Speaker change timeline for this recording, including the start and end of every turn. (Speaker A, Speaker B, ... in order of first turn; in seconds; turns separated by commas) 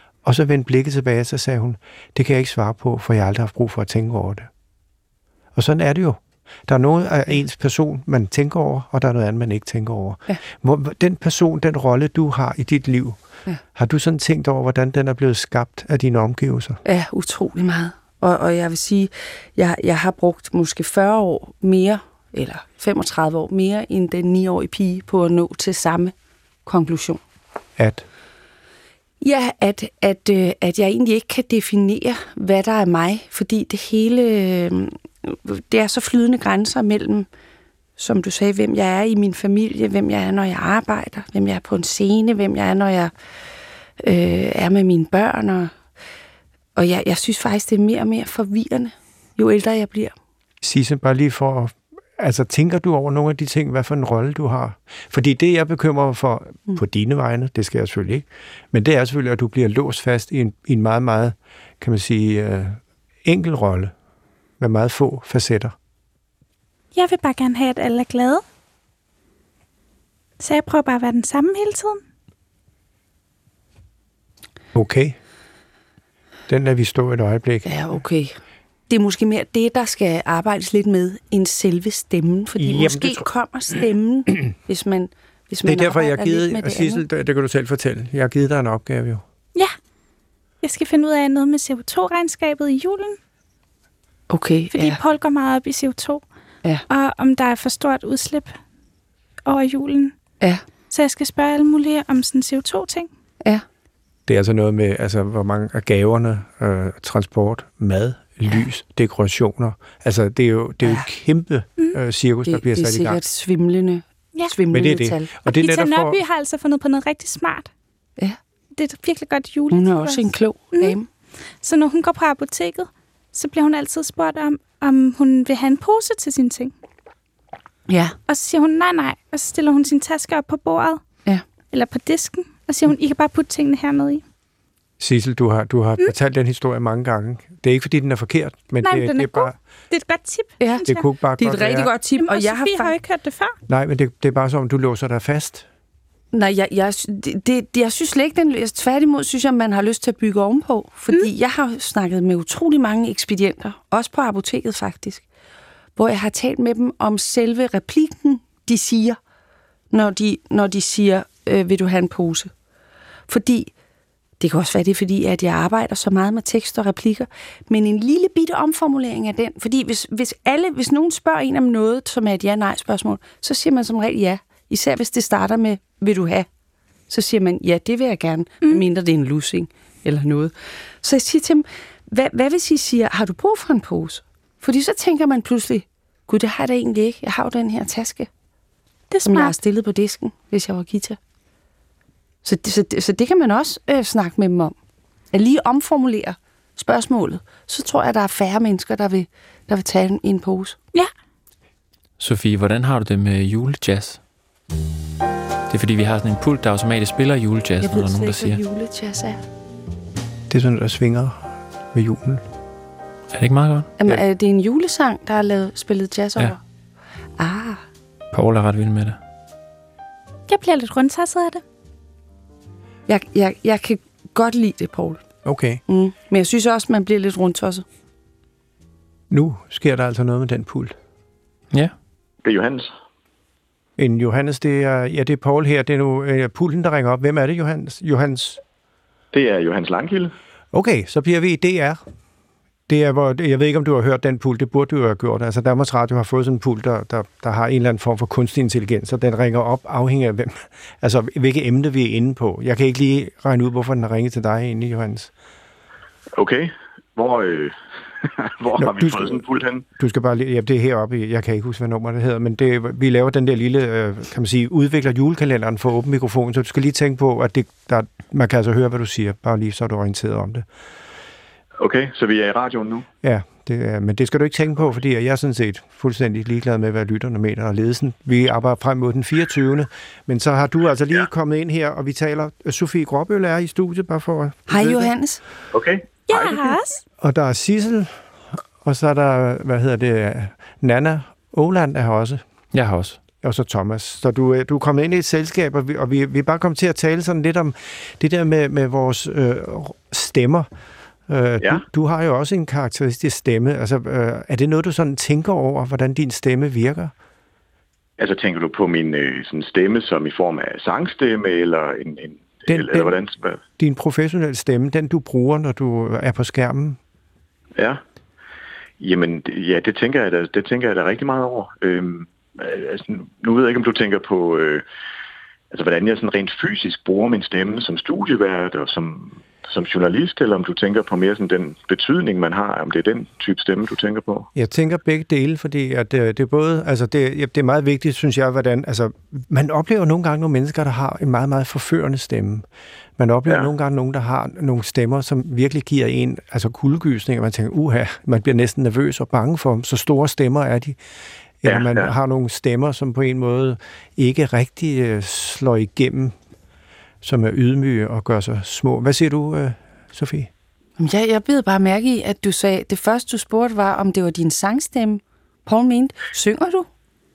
Speaker A: 0.2-4.5, Speaker A: 5.5-13.2, Speaker A: 13.8-16.8, Speaker B: 16.9-26.1, Speaker B: 26.7-27.2, Speaker A: 27.8-28.1, Speaker B: 29.2-37.3, Speaker B: 38.0-43.1, Speaker B: 44.0-45.7, Speaker B: 46.8-50.1, Speaker A: 50.6-63.9, Speaker A: 64.6-65.8, Speaker C: 66.9-68.4, Speaker C: 70.4-72.0, Speaker A: 74.7-75.2, Speaker A: 76.5-77.8, Speaker B: 77.7-78.4, Speaker B: 78.9-87.0, Speaker A: 82.6-83.3, Speaker A: 85.7-89.2, Speaker C: 90.6-93.2, Speaker B: 94.3-95.0, Speaker C: 94.7-96.2, Speaker C: 96.9-98.5, Speaker C: 99.5-100.2, Speaker C: 100.9-103.1, Speaker A: 104.3-113.2, Speaker B: 112.5-115.3, Speaker A: 114.7-116.2, Speaker C: 115.5-117.7, Speaker C: 118.7-121.0, Speaker B: 119.7-121.1, Speaker C: 121.6-126.7, Speaker B: 127.9-128.2, Speaker C: 128.3-131.0, Speaker C: 131.7-134.2, Speaker A: 135.0-139.6, Speaker C: 138.8-141.1, Speaker B: 140.6-140.9, Speaker A: 140.9-141.9, Speaker B: 141.4-142.9, Speaker C: 142.2-143.6, Speaker A: 143.7-145.7, Speaker B: 146.3-155.2, Speaker B: 156.0-159.2, Speaker B: 159.9-162.5, Speaker B: 163.3-163.7, Speaker B: 164.4-176.5, Speaker B: 177.1-188.3, Speaker C: 189.1-189.6, Speaker B: 189.3-191.2, Speaker B: 192.4-194.8, Speaker B: 195.3-200.8, Speaker D: 202.2-204.2, Speaker D: 205.7-208.6, Speaker B: 207.8-209.4, Speaker A: 210.5-212.4, Speaker D: 213.3-213.9, Speaker B: 214.0-216.6, Speaker B: 217.4-217.8, Speaker D: 218.3-219.2, Speaker C: 220.5-221.6, Speaker B: 223.1-225.2, Speaker A: 225.4-225.8, Speaker B: 225.9-227.8, Speaker A: 229.3-230.9, Speaker E: 232.4-232.9, Speaker A: 234.0-238.6, Speaker E: 239.3-240.3, Speaker A: 240.7-242.0, Speaker A: 242.9-255.3, Speaker E: 256.4-259.9, Speaker A: 258.8-259.4, Speaker A: 260.0-270.6, Speaker E: 271.8-273.1, Speaker A: 273.2-285.1, Speaker B: 284.7-285.4, Speaker E: 285.7-286.4, Speaker C: 286.3-287.0, Speaker A: 287.2-288.2, Speaker A: 288.8-292.4, Speaker D: 292.7-293.2, Speaker A: 293.4-300.7, Speaker A: 301.3-307.1, Speaker E: 308.2-313.6, Speaker A: 312.7-313.2, Speaker A: 313.8-317.0, Speaker E: 317.8-318.0, Speaker E: 319.0-324.8, Speaker E: 325.7-334.5, Speaker A: 334.6-342.7, Speaker A: 343.2-351.0, Speaker A: 351.6-356.4, Speaker E: 351.7-352.1, Speaker A: 357.2-360.5, Speaker B: 361.0-366.9